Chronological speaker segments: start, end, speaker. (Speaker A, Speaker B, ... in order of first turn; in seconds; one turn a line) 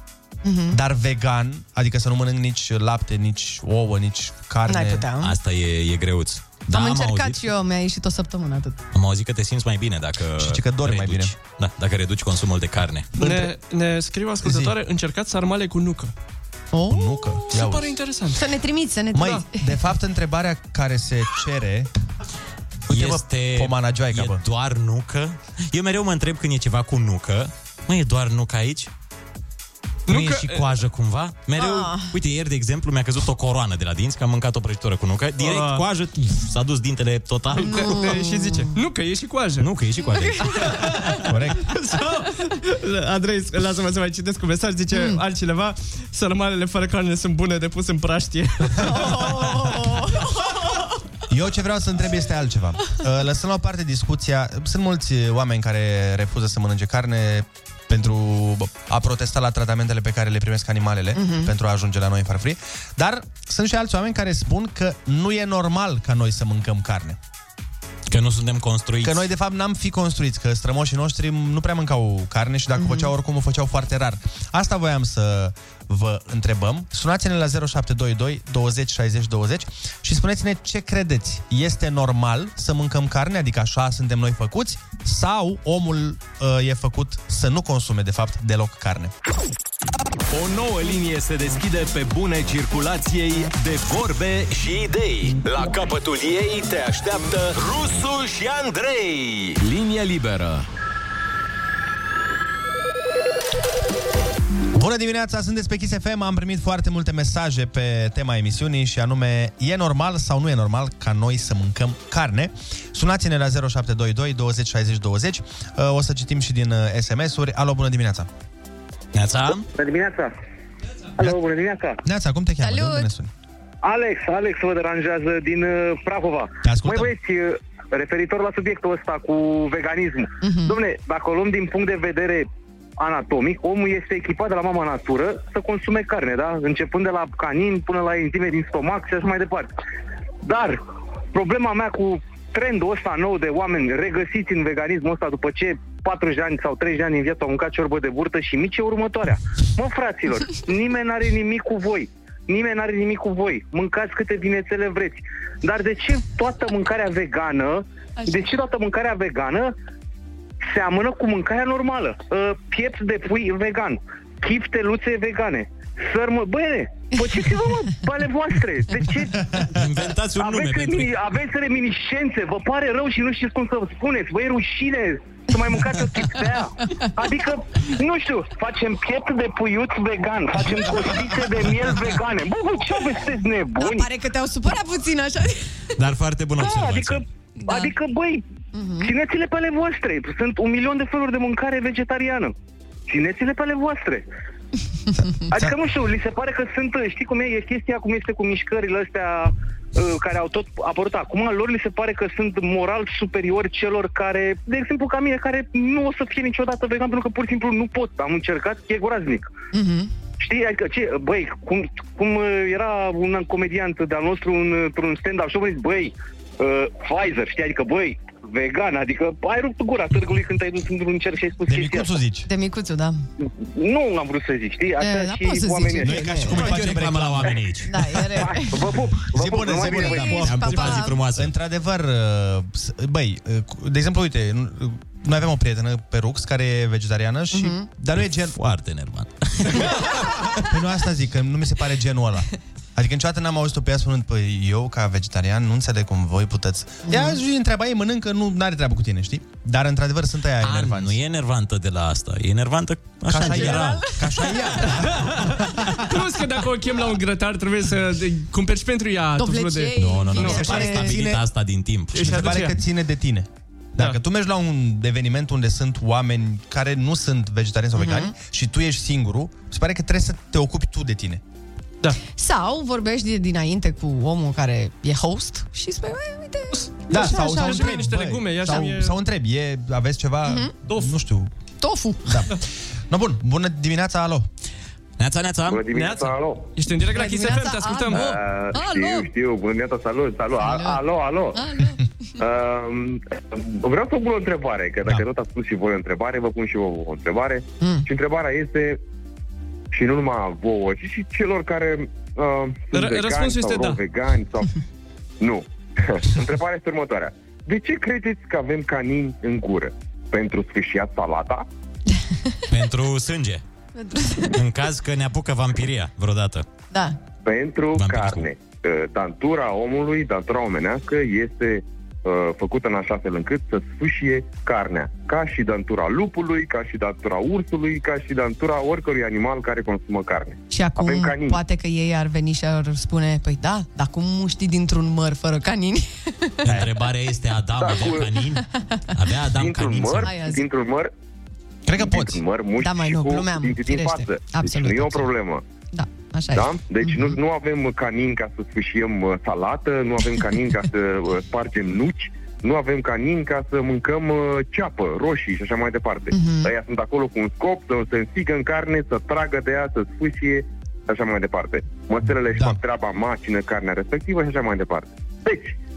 Speaker A: 0.4-0.8
Speaker B: 0.7-5.1
Speaker A: 4.7-5.4
Speaker C: 5.2-7.5
Speaker A: 6.7-8.8
Speaker C: 8.9-13.3
Speaker B: 10.4-11.3
Speaker D: 13.2-16.1
Speaker B: 14.4-14.7
Speaker A: 16.7-17.4
Speaker B: 16.9-18.0
Speaker D: 17.5-18.4
Speaker A: 18.3-19.8
Speaker B: 19.1-21.9
Speaker B: 22.9-24.4
Speaker C: 22.9-28.9
Speaker C: 30.1-38.1
Speaker D: 30.1-30.8
Speaker A: 31.6-32.1
Speaker D: 35.4-35.9
Speaker D: 37.5-39.7
Speaker A: 37.6-38.8
Speaker C: 39.6-40.8
Speaker A: 40.0-40.7
Speaker D: 40.6-41.0
Speaker B: 41.2-41.7
Speaker D: 41.6-49.4
Speaker A: 44.9-45.2
Speaker A: 48.8-50.8
Speaker B: 48.9-49.2
Speaker B: 51.3-67.2
Speaker A: 61.1-61.5
Speaker C: 68.1-69.3
Speaker B: 69.0-89.1
Speaker A: 72.8-73.1
Speaker E: 90.3-100.7
Speaker B: 104.7-118.3
Speaker C: 119.1-119.7
Speaker F: 119.7-120.3
Speaker F: 121.2-122.0
Speaker B: 122.0-123.3
Speaker A: 122.6-123.1
Speaker F: 123.8-132.5
Speaker B: 126.6-127.1
Speaker A: 130.4-130.8
Speaker F: 133.0-139.7
Speaker F: 140.4-140.8
Speaker F: 141.3-159.7
Speaker F: 160.6-169.4
Speaker C: 169.7-171.1
Speaker F: 170.3-184.1
Speaker A: 183.8-185.7
Speaker C: 186.0-187.3
Speaker F: 186.6-188.4
Speaker A: 187.6-187.9
Speaker A: 188.7-189.1
Speaker F: 189.0-192.5
Speaker F: 193.1-194.2
Speaker B: 195.2-195.8
Speaker F: 195.5-209.5
Speaker A: 209.7-210.1
Speaker F: 210.4-222.1
Speaker B: 221.7-222.5
Speaker A: 222.4-223.2
Speaker F: 223.4-226.2
Speaker A: 225.0-226.8
Speaker B: 226.0-227.6
Speaker C: 226.5-228.5
Speaker A: 227.8-231.2
Speaker B: 229.3-238.6
Speaker C: 230.3-231.5
Speaker A: 237.5-237.9
Speaker C: 238.2-240.1
Speaker B: 240.7-251.2
Speaker A: 247.0-247.4
Speaker C: 250.6-254.3
Speaker B: 253.3-256.2
Speaker A: 253.4-254.5
Speaker D: 256.1-260.6
Speaker A: 259.4-261.2
Speaker C: 260.0-262.6
Speaker B: 260.4-261.4
Speaker B: 262.1-271.4
Speaker D: 262.1-262.8
Speaker A: 268.0-268.3
Speaker A: 272.2-277.9
Speaker D: 276.7-279.2
Speaker B: 277.1-281.5
Speaker A: 280.4-280.7
Speaker D: 280.9-281.1
Speaker A: 281.8-282.4
Speaker B: 282.3-284.5
Speaker C: 285.2-286.0
Speaker G: 285.7-286.7
Speaker D: 285.9-288.4
Speaker A: 287.1-289.3
Speaker G: 288.1-291.7
Speaker A: 290.6-291.0
Speaker A: 291.5-292.0
Speaker G: 292.4-299.0
Speaker A: 297.8-298.1
Speaker G: 299.9-304.7
Speaker D: 302.9-304.0
Speaker G: 305.4-311.7
Speaker C: 312.7-313.6
Speaker A: 313.9-314.6
Speaker C: 314.5-316.7
Speaker A: 316.9-317.2
Speaker G: 317.4-331.6
Speaker C: 317.9-318.5
Speaker A: 330.7-336.8
Speaker C: 336.6-340.3
Speaker G: 337.8-338.3
Speaker G: 339.5-341.1
Speaker A: 340.2-340.6
Speaker B: 341.9-342.4
Speaker G: 342.1-345.6
Speaker A: 342.8-345.3
Speaker A: 345.9-347.4
Speaker G: 346.5-365.8
Speaker A: 356.3-356.7
Speaker B: 362.6-362.8